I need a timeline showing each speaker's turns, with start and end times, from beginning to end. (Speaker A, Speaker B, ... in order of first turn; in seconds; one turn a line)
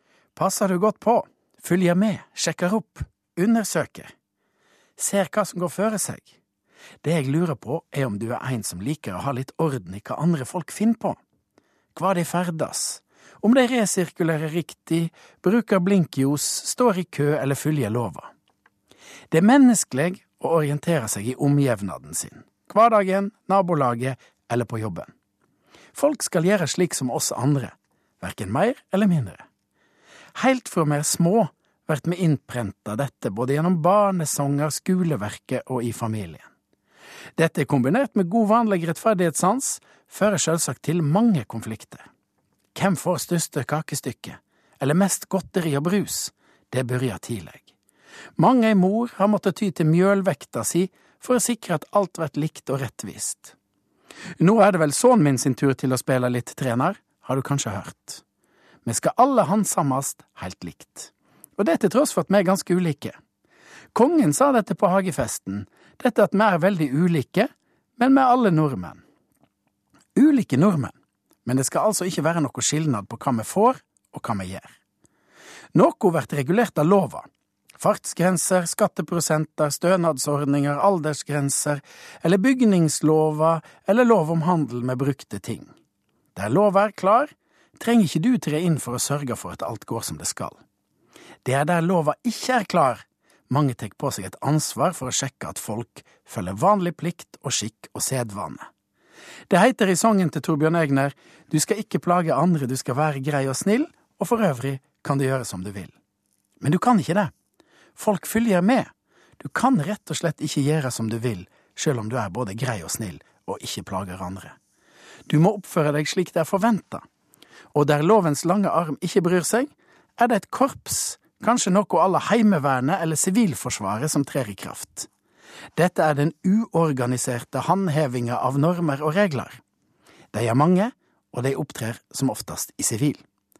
Speaker A: 0.3-4.1
Speaker A: 5.0-6.3
Speaker A: 7.0-11.2
Speaker A: 11.9-18.3
Speaker A: 19.3-25.1
Speaker A: 25.9-29.4
Speaker A: 30.3-36.5
Speaker A: 37.4-42.1
Speaker A: 42.7-47.7
Speaker A: 48.4-53.5
Speaker A: 54.4-58.2
Speaker A: 58.8-63.2
Speaker A: 63.9-69.0
Speaker A: 70.2-74.7
Speaker A: 75.7-77.3
Speaker A: 77.8-85.7
Speaker A: 86.3-90.6
Speaker A: 91.4-98.7
Speaker A: 99.5-105.9
Speaker A: 106.6-107.3
Speaker A: 108.0-114.5
Speaker A: 115.3-117.0
Speaker A: 117.7-125.1
Speaker A: 125.7-129.6
Speaker A: 130.3-133.2